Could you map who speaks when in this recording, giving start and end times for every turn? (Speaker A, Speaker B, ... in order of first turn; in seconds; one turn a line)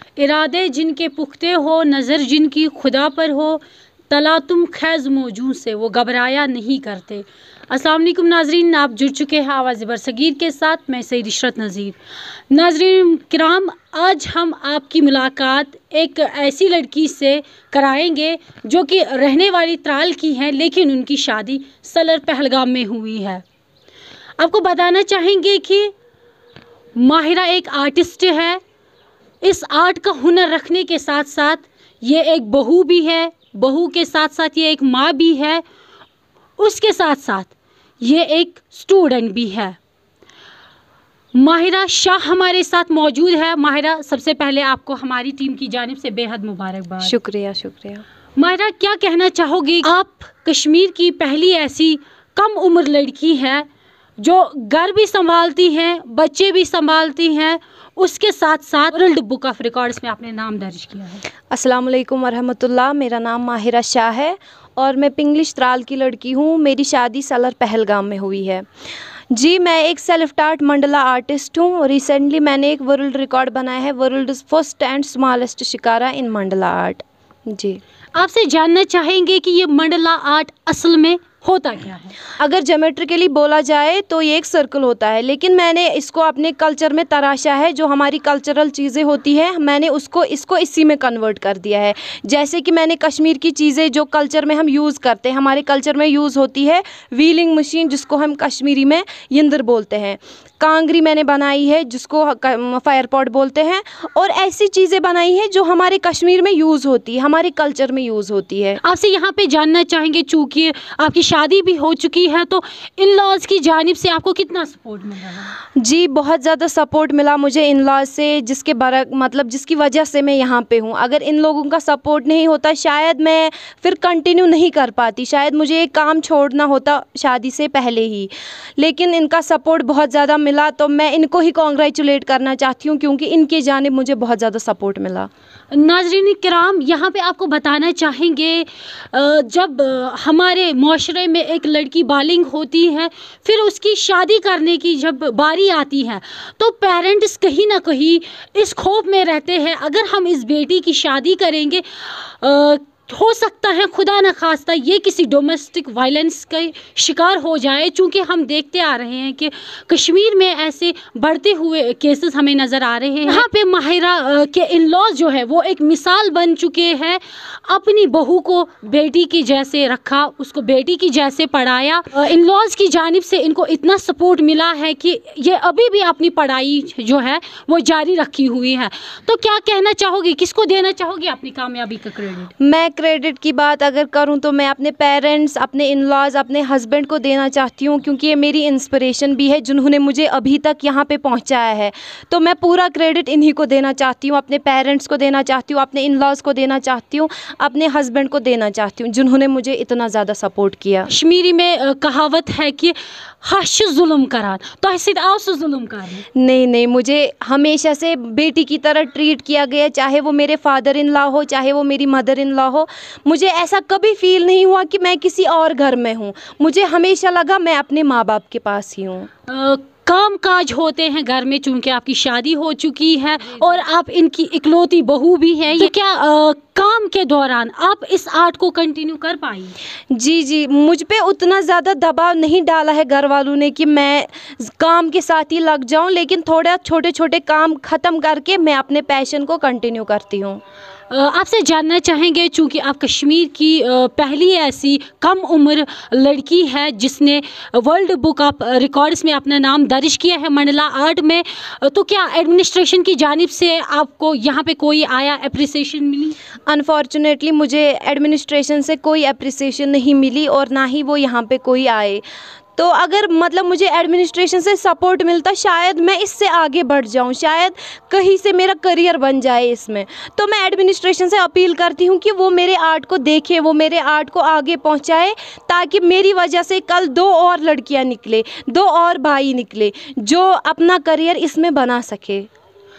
Speaker A: 0.2-12.0
Speaker A: 12.5-23.4
Speaker A: 24.4-25.9
Speaker A: 27.0-28.6
Speaker A: 29.4-35.6
Speaker A: 36.6-39.8
Speaker A: 41.3-47.1
Speaker B: 47.0-48.0
Speaker A: 48.4-53.7
Speaker A: 54.2-61.2
Speaker B: 61.5-68.7
Speaker B: 69.3-77.8
Speaker A: 78.2-82.1
Speaker B: 82.4-108.8
Speaker A: 108.8-115.5
Speaker B: 115.8-135.3
Speaker A: 135.7-182.5
Speaker B: 182.6-201.1
Speaker A: 201.1-206.2
Speaker B: 206.4-219.3
Speaker A: 219.5-229.8
Speaker B: 230.1-240.6
Speaker A: 241.1-256.4
Speaker B: 256.7-262.2
Speaker B: 262.8-282.5